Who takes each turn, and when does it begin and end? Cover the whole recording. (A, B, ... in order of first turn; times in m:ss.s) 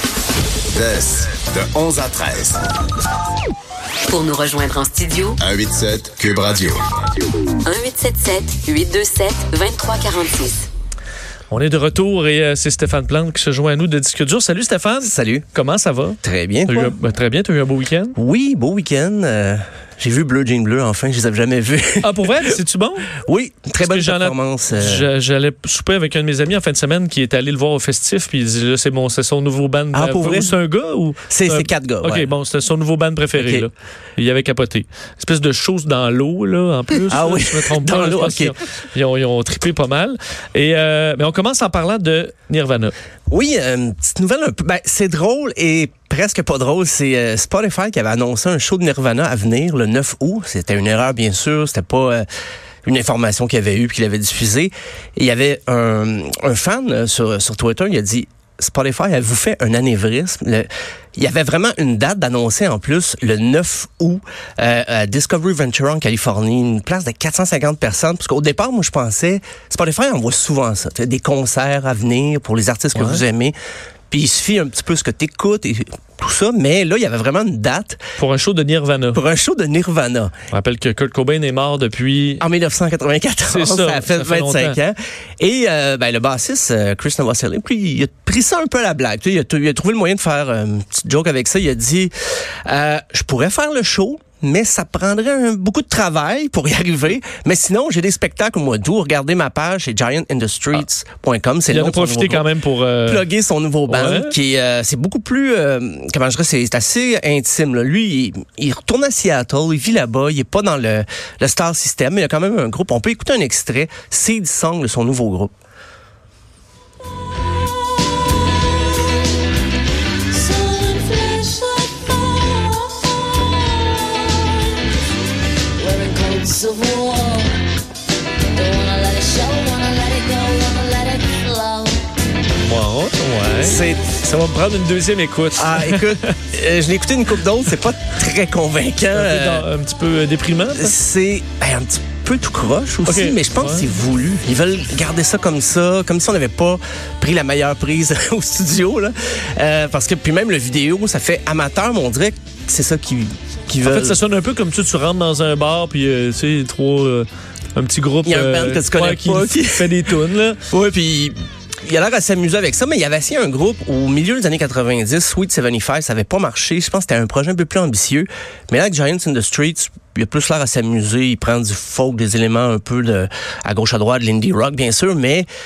0:00.7-0:02.6 A
0:04.1-0:05.4 B
0:05.4-0:06.8 A
0:07.6-0:10.6 B
0:11.5-0:18.1 C
0:15.0-0:15.5 D
0:16.2-0:16.9 D
0:18.2-0:22.3 D
0:22.0-0:23.2 C
0:23.2-0:25.1 D
0:23.8-0:42.9 C
0:29.9-0:30.5 D
0:31.3-0:32.3 D
0:33.3-0:33.7 D
0:37.1-0:38.5 D
0:43.3-0:52.2 D
0:52.8-1:13.5 D
1:13.0-1:13.2 C
1:14.1-1:18.0 D
1:18.2-1:19.2 C
1:19.1-1:20.3 D
1:20.5-1:22.4 C
1:22.4-1:32.1 D
1:23.5-1:24.8 C
1:32.6-1:42.4 D
1:41.7-1:43.2 C
1:43.0-1:55.5 D
1:43.9-1:44.3 C
2:00.3-2:04.7 E
2:05.8-2:07.6 E
2:08.5-2:12.0 E
2:12.6-2:16.4 C
2:13.6-2:14.1 D
2:15.6-2:19.7 D
2:19.1-2:20.9 C
2:20.7-2:34.2 D
2:23.0-2:23.9 C
2:33.8-2:40.6 C
2:38.2-2:40.1 D
2:40.6-2:55.5 D